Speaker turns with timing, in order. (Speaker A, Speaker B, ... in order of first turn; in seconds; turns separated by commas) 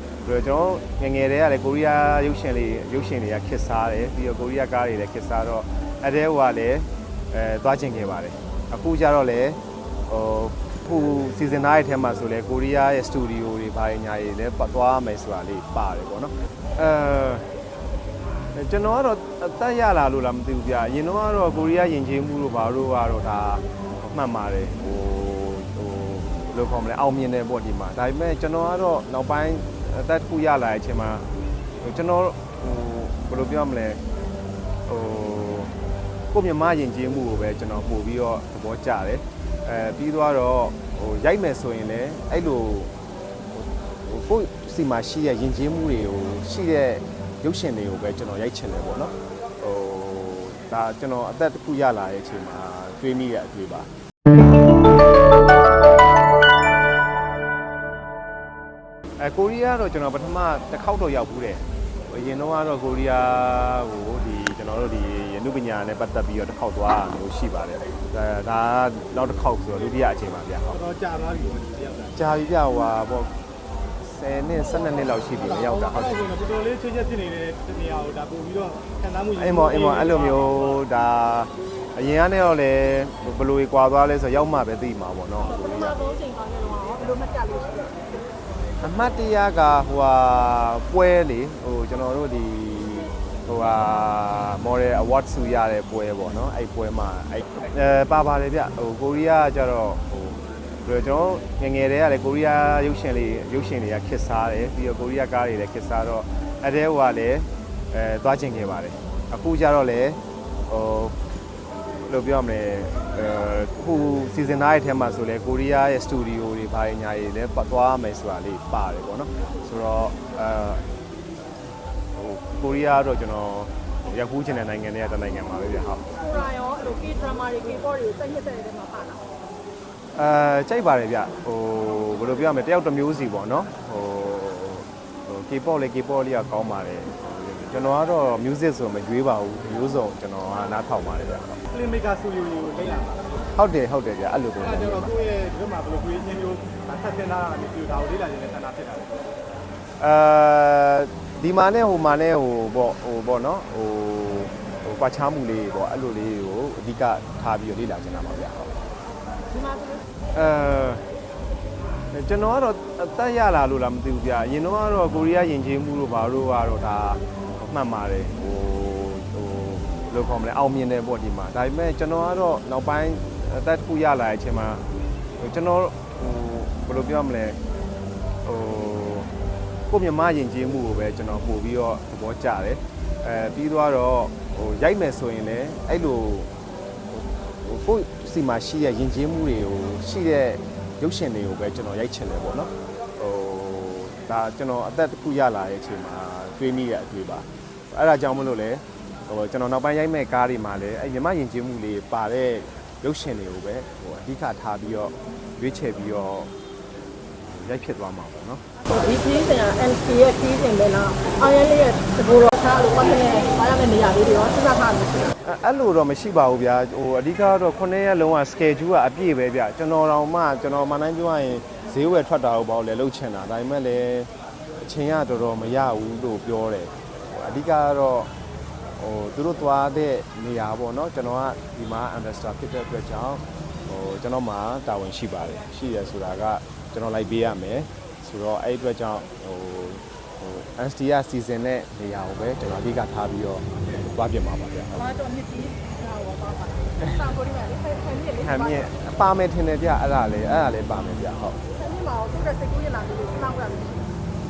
Speaker A: 0.2-17.5, Speaker A: 18.5-31.3, Speaker A: 31.8-34.0, Speaker A: 34.9-35.7, Speaker A: 36.3-42.9, Speaker A: 43.5-53.9, Speaker A: 59.2-70.8, Speaker B: 70.7-72.1, Speaker A: 72.2-73.3, Speaker A: 74.0-76.3, Speaker B: 75.9-80.5, Speaker A: 79.3-86.0, Speaker C: 85.4-88.1, Speaker A: 88.8-111.2, Speaker A: 112.1-120.8, Speaker A: 122.1-126.0, Speaker C: 126.1-129.2, Speaker A: 130.2-141.6, Speaker B: 141.7-143.4, Speaker A: 143.5-145.2, Speaker B: 144.6-149.2, Speaker A: 150.0-158.7, Speaker C: 159.5-160.0, Speaker A: 160.3-161.1, Speaker A: 162.1-174.8, Speaker A: 175.4-177.6, Speaker A: 178.4-179.3, Speaker A: 179.9-186.5, Speaker A: 187.1-206.5, Speaker A: 207.4-208.7, Speaker C: 208.9-215.3, Speaker A: 215.4-224.3, Speaker A: 224.8-228.3, Speaker A: 229.0-245.1, Speaker C: 244.9-248.9, Speaker A: 248.4-251.6, Speaker C: 251.7-254.1